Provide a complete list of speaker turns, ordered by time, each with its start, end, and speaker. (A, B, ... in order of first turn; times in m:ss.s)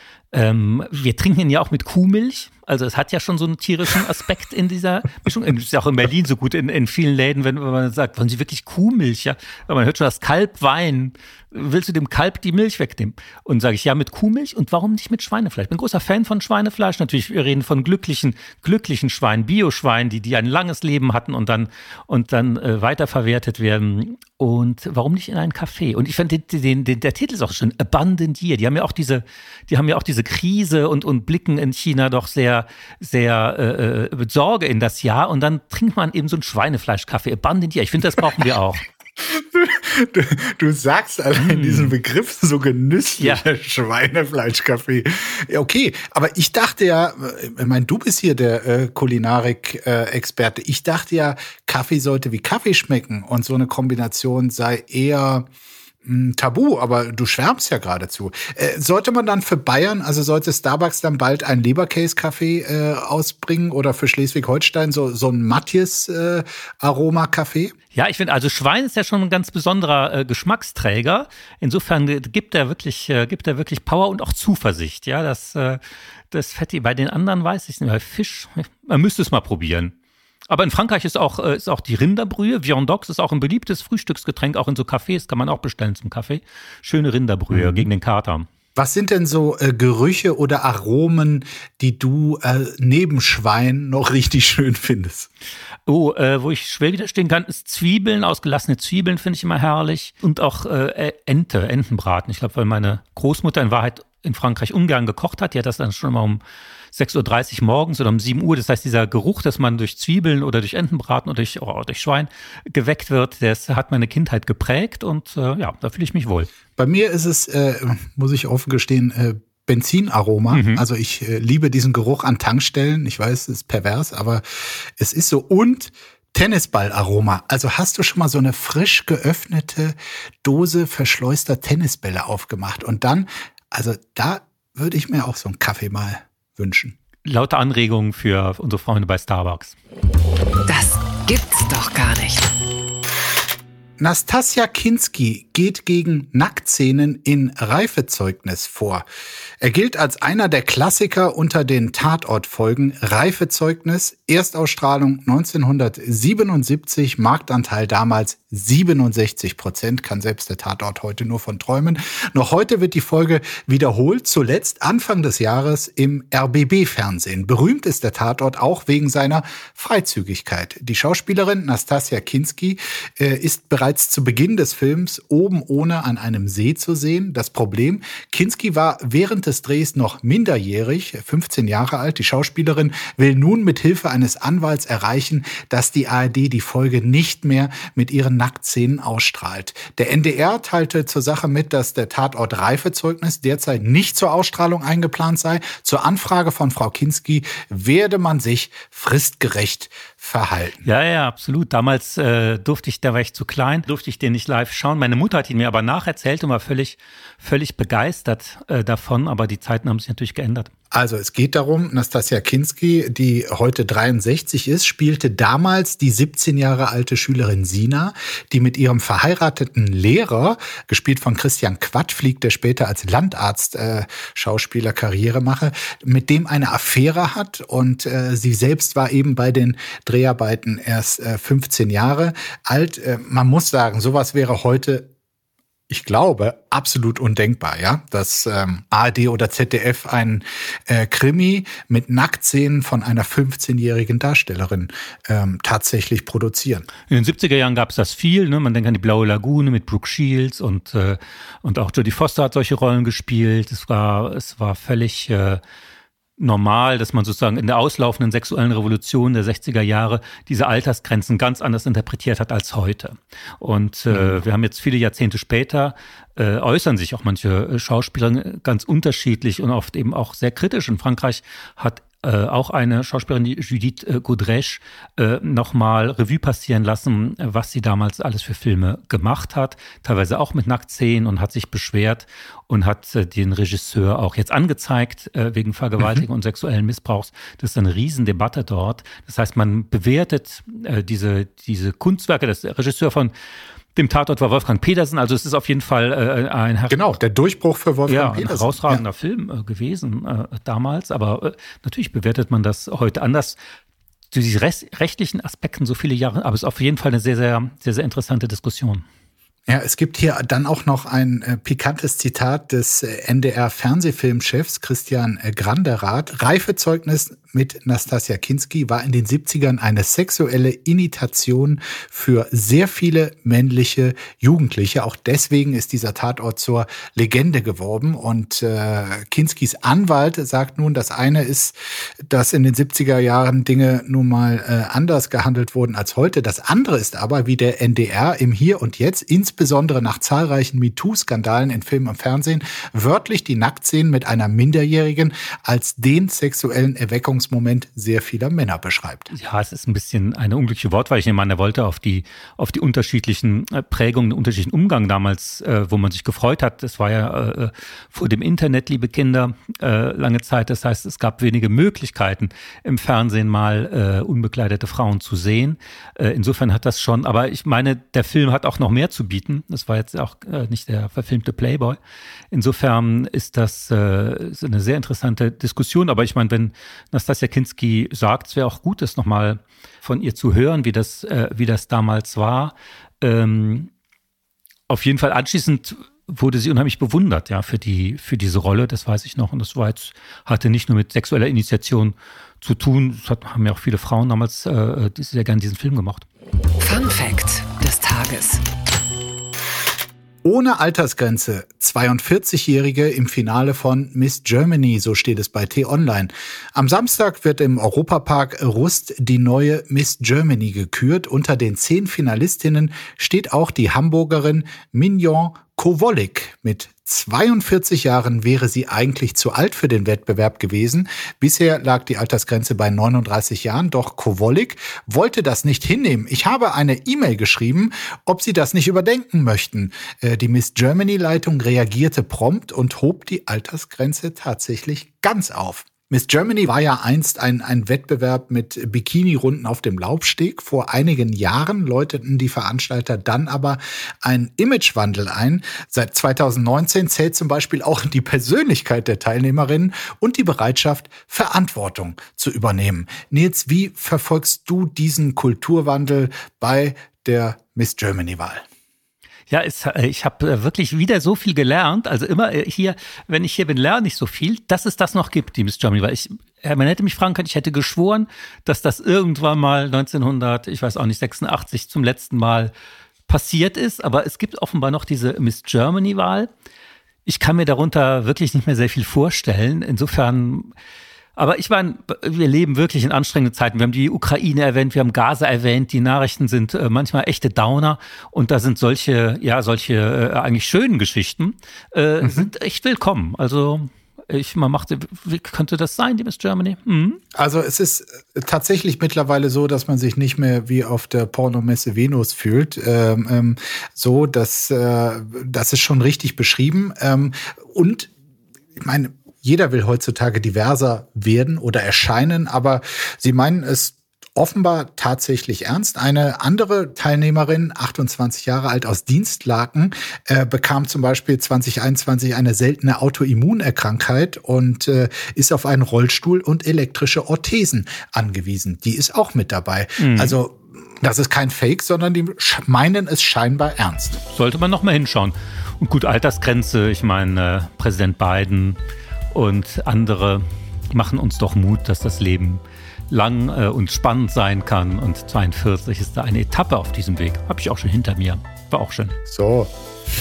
0:00.3-0:38.8 A
0:39.2-0:55.5 B
0:41.4-0:41.9 A
0:56.0-1:07.7 B
1:07.9-1:20.0 A
1:20.5-1:28.5 A
1:27.5-1:27.9 B
1:28.8-1:35.3 B
1:35.9-1:46.4 A
1:46.9-1:56.5 A
1:56.8-2:04.4 B
2:00.5-2:00.8 A
2:05.0-2:17.0 B
2:17.2-2:19.8 A
2:20.7-2:22.5 C
2:24.0-2:29.0 B
2:29.6-3:20.8 B
3:20.8-3:30.7 A
3:30.9-3:55.1 B
3:55.9-4:06.9 B
4:07.1-4:15.6 A
4:16.4-4:53.3 A
4:54.0-4:57.2 A
4:56.9-4:59.0 B
4:58.1-5:03.6 A
5:04.3-5:09.0 A
5:09.7-5:49.3 B
5:49.3-6:12.0 A
6:12.5-6:23.9 A
6:24.9-6:36.3 A
6:36.8-6:38.6 C
6:40.4-7:38.6 B
7:39.5-7:52.7 A
7:53.3-7:56.5 A
7:57.3-8:00.7 A
8:01.4-8:17.2 A
8:12.2-8:12.5 B
8:17.3-8:28.1 B
8:28.8-8:54.2 B
8:50.0-8:50.4 A
8:54.3-8:58.8 A
8:59.3-9:09.2 A
9:09.3-9:09.7 B